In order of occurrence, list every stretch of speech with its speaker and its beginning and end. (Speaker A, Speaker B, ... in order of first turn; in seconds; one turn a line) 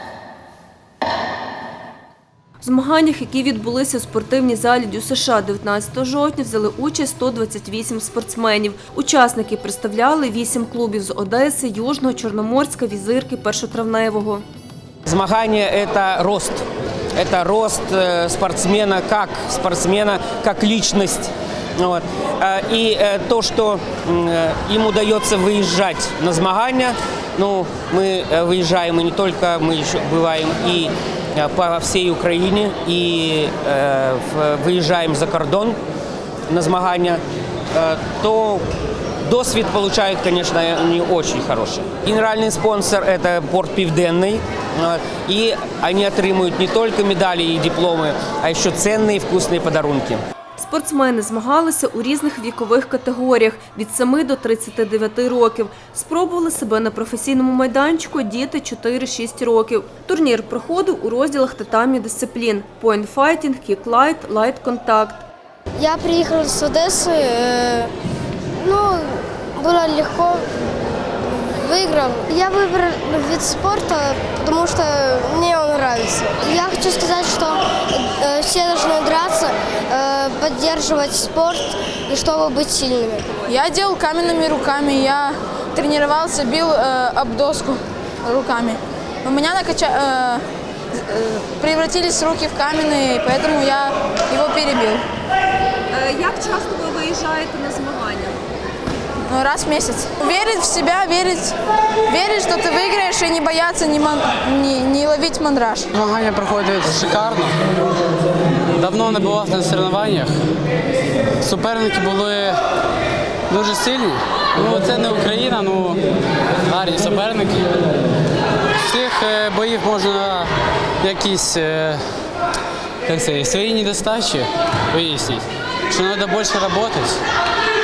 Speaker A: 2.6-14.4
Speaker B: 15.1-16.6
Speaker B: 17.1-35.8
Speaker B: 36.5-37.2
Speaker B: 37.7-38.6
Speaker B: 39.2-50.2
Speaker A: 50.6-65.2
Speaker C: 65.8-67.9
Speaker C: 68.6-83.4
Speaker D: 83.5-90.4
Speaker D: 90.9-95.0
Speaker A: 95.9-98.3
Speaker D: 99.2-101.5
Speaker D: 102.1-105.9
Speaker E: 105.9-107.5
Speaker E: 108.8-110.3
Speaker E: 111.4-112.5
Speaker E: 113.5-116.0
Speaker E: 116.7-117.8
Speaker E: 118.8-120.5
Speaker E: 121.0-122.0
Speaker E: 123.0-127.2